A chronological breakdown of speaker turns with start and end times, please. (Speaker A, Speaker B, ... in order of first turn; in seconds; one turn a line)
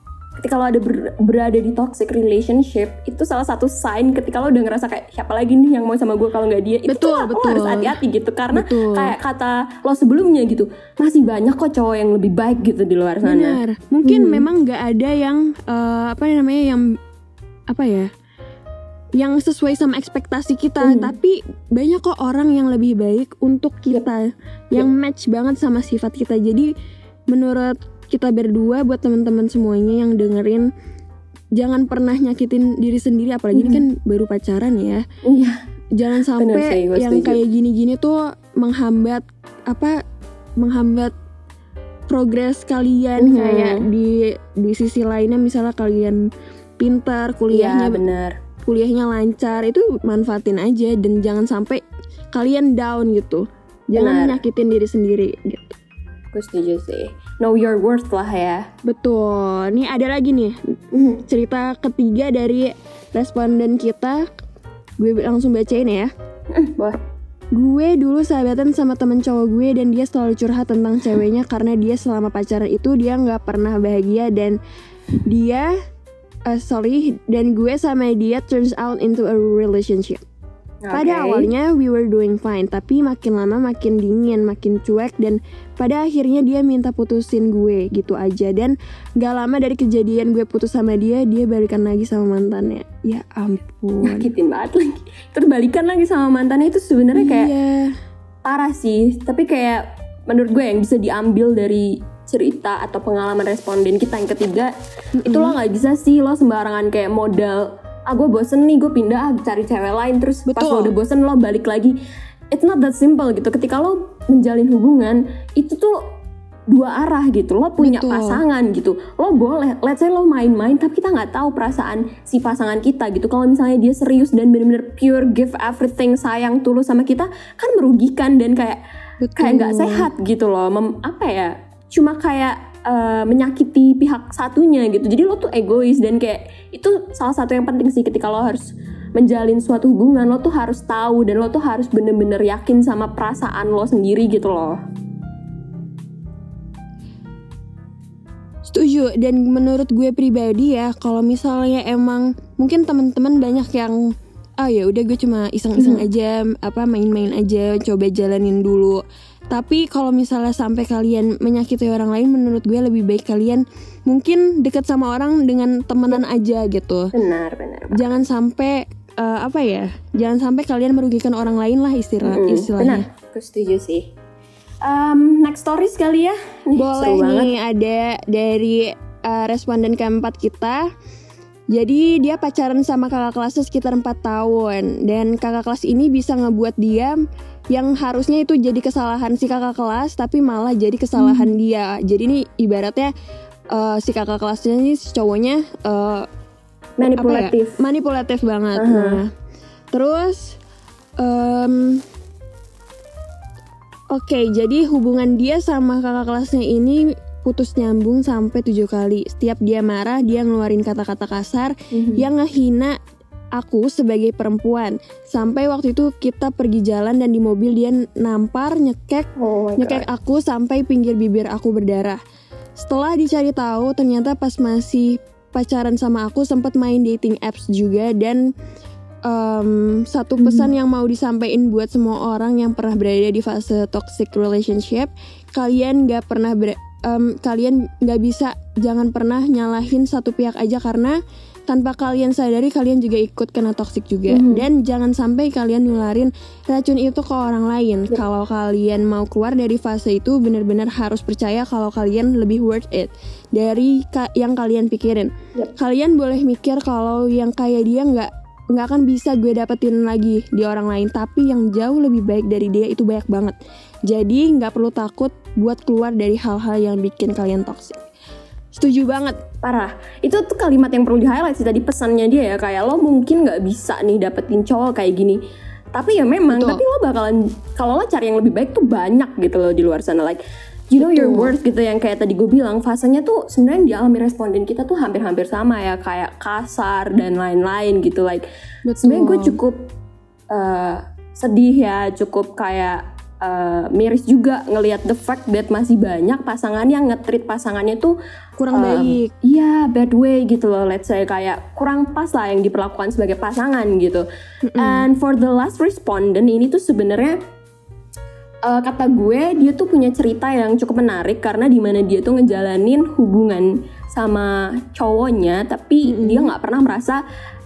Speaker A: 0.4-14.4
Speaker B: 6.9-8.0
Speaker B: 8.5-9.2
Speaker B: 13.2-16.8
Speaker B: 17.7-18.1
Speaker B: 19.2-26.7
Speaker A: 20.8-21.1
Speaker B: 27.3-30.7
Speaker B: 31.6-35.0
Speaker A: 33.5-33.8
Speaker A: 35.2-35.6
Speaker B: 36.0-40.0
Speaker A: 36.4-37.4
Speaker B: 40.6-41.1
Speaker B: 42.1-46.2
Speaker A: 43.2-43.9
Speaker B: 46.8-48.0
Speaker A: 47.5-48.4
Speaker B: 48.6-51.8
Speaker B: 52.3-55.8
Speaker A: 54.0-54.4
Speaker A: 56.3-58.7
Speaker B: 58.8-64.2
Speaker A: 60.9-61.2
Speaker B: 65.0-66.1
Speaker A: 66.5-67.0
Speaker B: 67.5-74.6
Speaker B: 75.2-75.7
Speaker B: 76.5-80.2
Speaker A: 80.8-81.5
Speaker B: 80.9-94.3
Speaker A: 94.0-97.5
Speaker B: 97.1-97.9
Speaker A: 98.4-104.7
Speaker B: 105.2-105.6
Speaker A: 105.2-112.0
Speaker B: 110.5-110.9
Speaker A: 112.5-116.1
Speaker A: 116.7-128.8
Speaker B: 117.8-118.4
Speaker B: 129.2-130.1
Speaker A: 129.4-144.8
Speaker B: 148.6-167.1
Speaker A: 155.8-156.1
Speaker A: 167.1-168.0
Speaker B: 167.9-173.1
Speaker A: 172.2-174.1
Speaker A: 174.8-177.5
Speaker B: 176.8-180.9
Speaker B: 181.7-187.2
Speaker B: 187.7-193.1
Speaker A: 191.2-191.5
Speaker B: 193.7-196.3
Speaker A: 197.0-197.8
Speaker B: 197.0-199.3
Speaker A: 198.7-199.2
Speaker B: 199.9-200.6
Speaker B: 201.2-202.0
Speaker B: 204.1-213.0
Speaker A: 211.9-212.2
Speaker B: 213.6-222.2
Speaker A: 219.4-220.0
Speaker B: 222.8-228.5
Speaker B: 229.2-263.6
Speaker A: 230.4-230.7
Speaker A: 244.3-244.6
Speaker B: 264.1-268.1
Speaker B: 268.7-269.4
Speaker A: 269.6-275.4
Speaker A: 275.9-288.5
Speaker B: 276.5-276.8
Speaker B: 281.0-281.5
Speaker B: 288.9-289.6
Speaker A: 289.0-289.9
Speaker A: 290.5-298.1
Speaker B: 298.6-299.3
Speaker A: 298.7-304.2
Speaker B: 304.6-305.1
Speaker A: 304.8-307.4
Speaker A: 308.6-317.2
Speaker B: 316.0-316.5